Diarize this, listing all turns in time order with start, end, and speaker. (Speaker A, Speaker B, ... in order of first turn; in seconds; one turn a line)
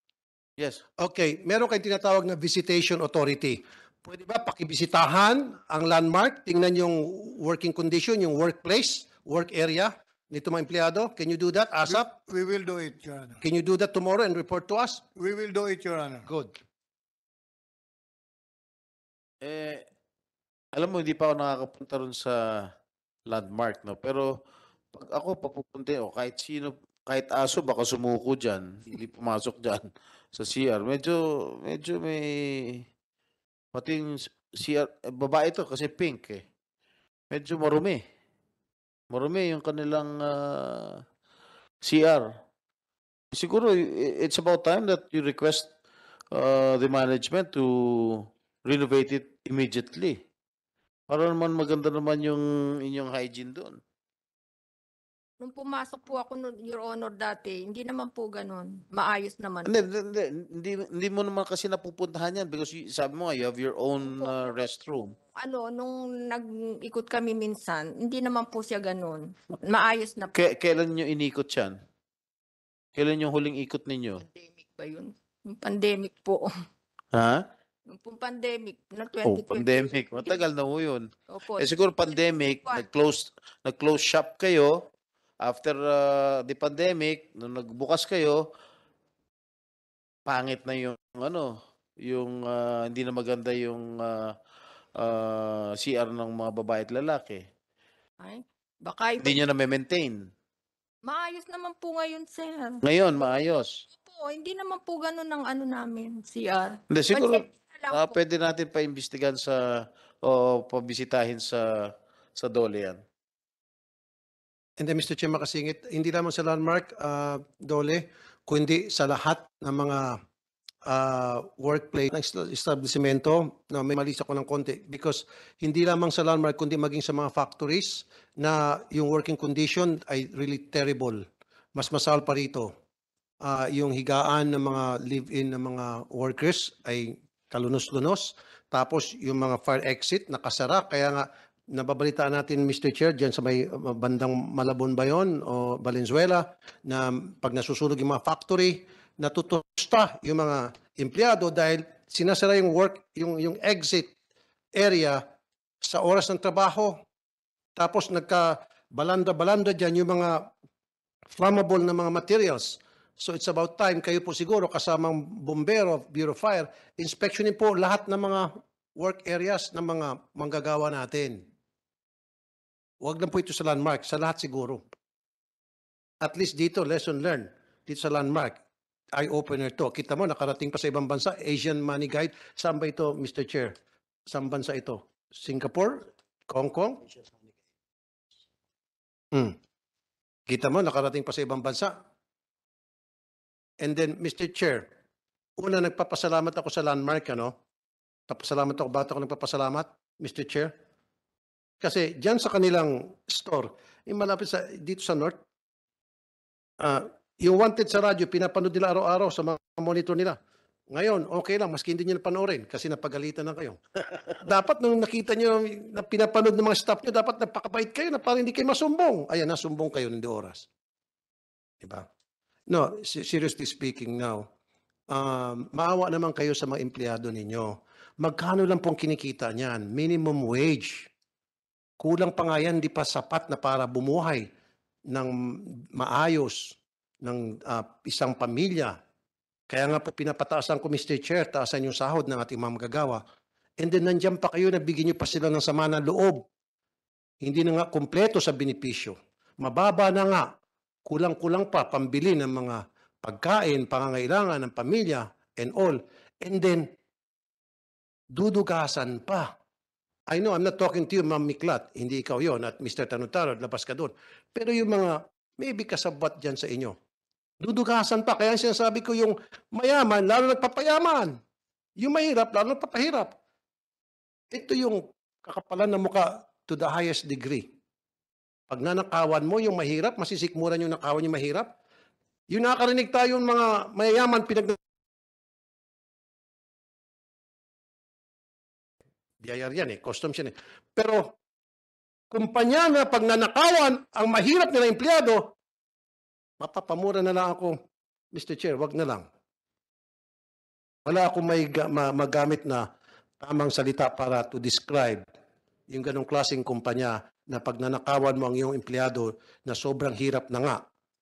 Speaker A: 1.0-12.1
Speaker B: 11.9-13.4
Speaker A: 13.4-15.0
Speaker B: 15.2-16.3
Speaker A: 16.2-16.5
Speaker C: 19.4-19.8
Speaker C: 20.7-22.7
Speaker C: 23.3-24.3
Speaker C: 24.9-32.8
Speaker C: 33.8-36.4
Speaker C: 37.3-38.0
Speaker C: 39.1-41.0
Speaker C: 41.8-42.3
Speaker C: 43.3-45.7
Speaker C: 46.3-50.2
Speaker C: 51.1-53.8
Speaker D: 55.4-59.8
Speaker C: 59.6-65.1
Speaker D: 64.0-64.4
Speaker D: 65.4-70.3
Speaker C: 70.3-71.8
Speaker C: 73.0-74.2
Speaker D: 74.2-76.5
Speaker C: 77.1-77.5
Speaker D: 77.9-80.4
Speaker C: 79.2-84.8
Speaker D: 81.3-82.8
Speaker C: 85.4-88.4
Speaker C: 90.3-91.5
Speaker C: 92.0-94.3
Speaker C: 95.0-97.4
Speaker D: 98.2-99.4
Speaker C: 99.2-100.2
Speaker D: 101.1-102.8
Speaker C: 102.8-103.8
Speaker D: 104.0-108.2
Speaker C: 106.9-109.6
Speaker C: 110.2-113.0
Speaker A: 114.8-120.2
Speaker A: 120.9-131.2
Speaker A: 131.8-132.7
Speaker A: 133.4-154.1
Speaker A: 154.8-155.2
Speaker A: 155.8-157.0
Speaker A: 157.8-160.5
Speaker A: 161.3-171.4
Speaker A: 173.0-174.8
Speaker A: 176.2-178.6
Speaker A: 179.2-183.7
Speaker A: 184.3-187.1
Speaker A: 190.5-191.9
Speaker A: 193.8-194.9
Speaker A: 195.6-197.5
Speaker A: 198.3-200.7
Speaker A: 201.8-205.4
Speaker A: 206.8-210.4
Speaker A: 210.9-213.8
Speaker A: 214.4-220.7
Speaker A: 221.8-222.1
Speaker A: 222.7-224.5
Speaker A: 225.1-231.1
Speaker A: 232.0-234.5
Speaker A: 235.9-239.0
Speaker A: 239.7-243.2
Speaker A: 243.8-246.5
Speaker A: 247.4-250.5
Speaker A: 251.1-256.9
Speaker A: 258.3-259.5
Speaker A: 260.3-267.0
Speaker A: 267.6-271.4
Speaker A: 272.0-273.4
Speaker A: 274.5-277.7
Speaker A: 278.7-281.7
Speaker A: 282.5-284.8
Speaker A: 289.4-291.3
Speaker A: 292.3-295.5
Speaker A: 296.6-297.8
Speaker A: 298.3-299.3
Speaker A: 301.1-302.9
Speaker A: 303.4-305.2
Speaker A: 305.9-310.8